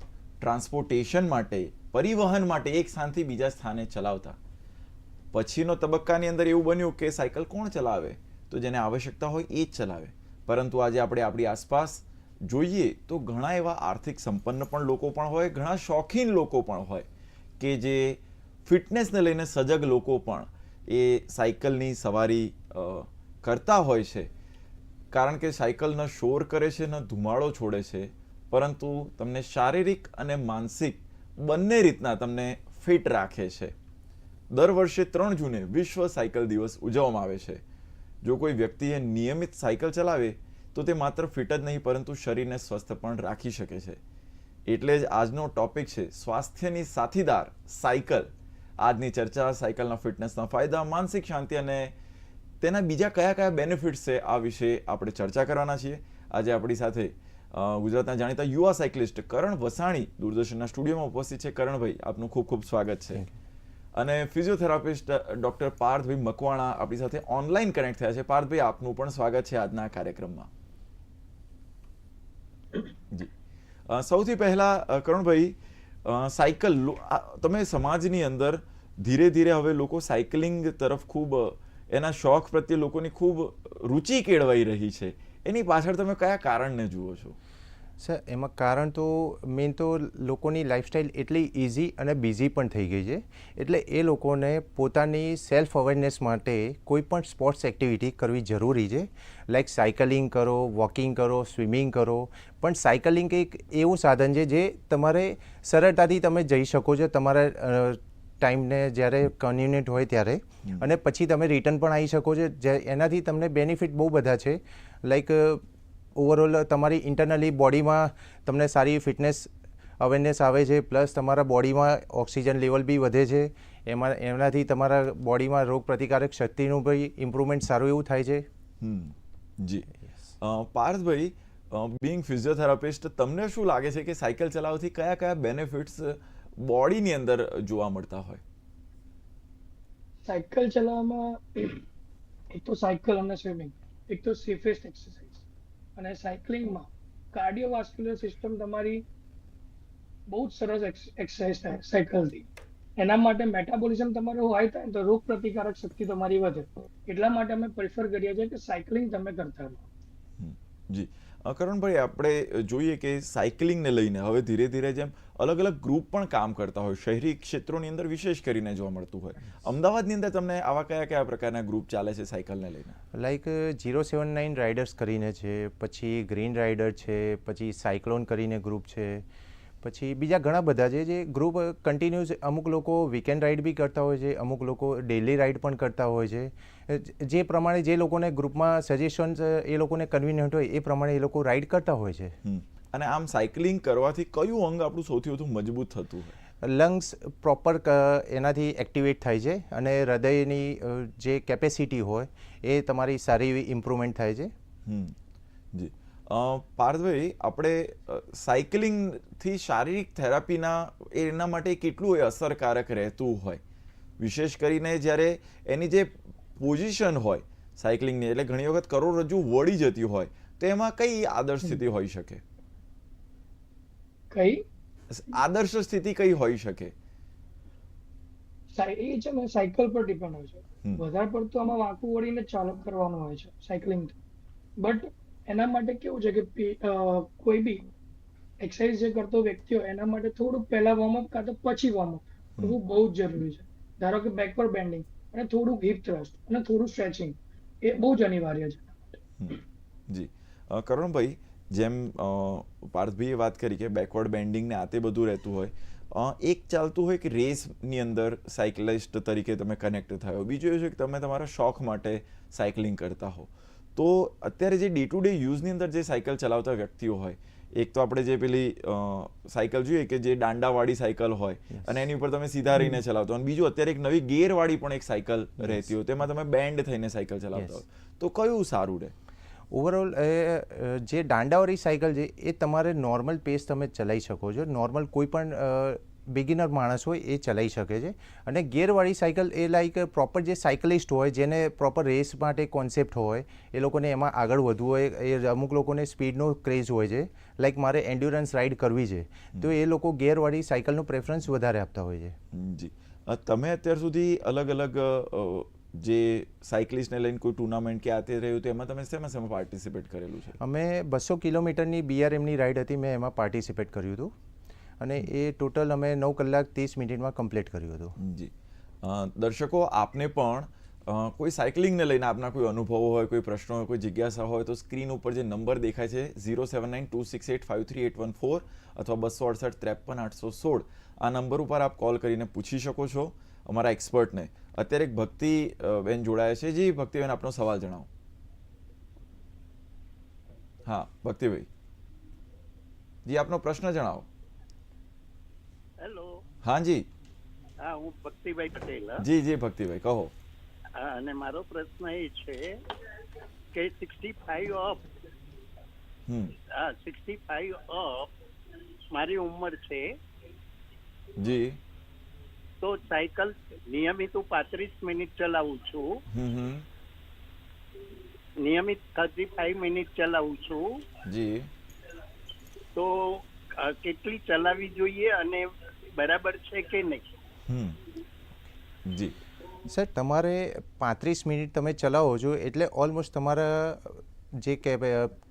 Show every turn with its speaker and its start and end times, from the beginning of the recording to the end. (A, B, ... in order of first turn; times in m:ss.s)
0:00.4-0:04.4 A
0:05.3-0:17.1 A
0:17.6-0:24.3 A
0:25.1-0:33.7 A
0:34.5-0:37.6 A
0:38.2-0:44.0 A
0:44.7-0:51.9 A
0:52.6-1:03.2 A
1:04.0-1:10.5 A
1:13.9-1:27.4 A
1:28.0-1:55.6 B
1:56.2-2:08.5 B
2:08.8-2:09.9 A
2:10.4-2:18.4 A
2:20.2-2:21.8 C
2:22.5-2:25.4 C
2:26.0-2:29.0 C
2:30.3-2:39.8 C
2:40.4-2:53.0 A
2:53.1-2:59.2 B
2:59.8-3:12.4 B
3:12.4-3:16.3 A
3:16.6-3:24.5 B
3:24.8-3:25.2 A
3:25.7-3:33.6 A
3:34.2-3:42.4 A
3:44.3-3:44.6 C
3:45.1-3:46.9 A
3:48.7-3:54.2 C
3:54.8-3:57.9 C
3:58.6-4:09.2 C
4:10.1-4:39.1 A
4:31.7-4:32.0 B
4:39.7-5:02.4 B
5:02.5-5:10.6 A
5:10.6-5:14.3 B
5:15.0-5:18.2 B
5:18.2-5:38.1 A
5:40.8-5:41.7 A
5:43.2-5:44.3 A
5:46.0-5:46.4 D
5:46.6-5:47.1 A
5:47.8-5:49.2 D
5:49.2-5:50.3 A
5:51.0-5:52.8 D
5:53.7-5:55.1 D
5:56.3-5:56.6 A
5:56.7-5:58.3 D
5:59.1-6:00.1 D
6:01.4-6:01.8 A
6:02.8-6:06.2 D
6:06.3-6:06.9 A
6:08.6-6:11.0 D
6:11.2-6:11.7 A
6:12.9-6:17.3 D
6:17.7-6:18.0 A
6:19.0-6:19.4 A
6:19.8-6:25.3 B